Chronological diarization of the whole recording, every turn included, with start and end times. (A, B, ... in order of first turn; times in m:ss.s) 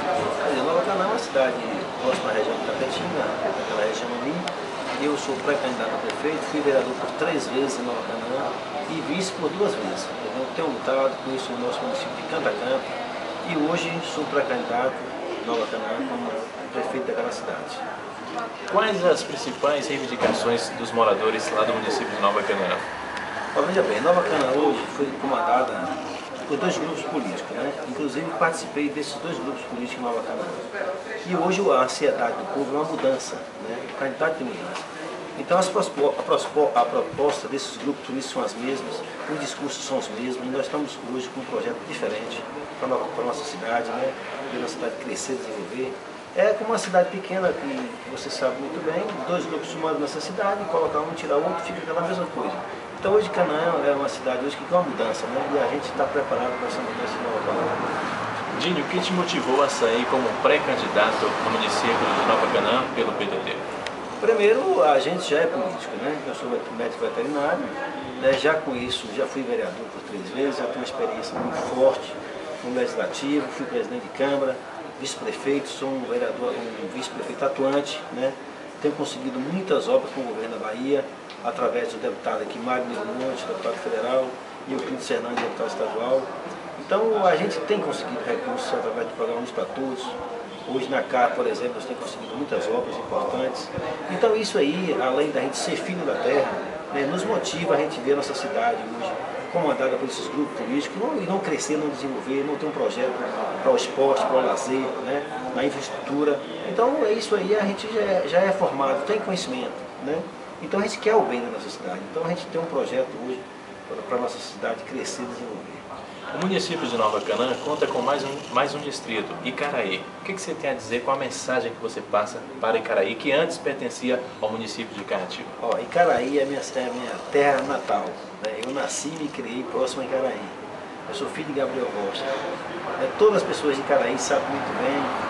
0:00.4-0:04.5 A
0:05.0-0:12.9 A
0:13.4-0:17.8 A
0:18.7-0:22.8 B
0:23.5-0:30.6 A
0:31.2-0:57.9 A
0:58.5-1:03.6 B
1:04.2-1:55.8 A
1:56.3-2:05.5 B
2:05.6-2:12.2 A
2:13.0-2:15.1 A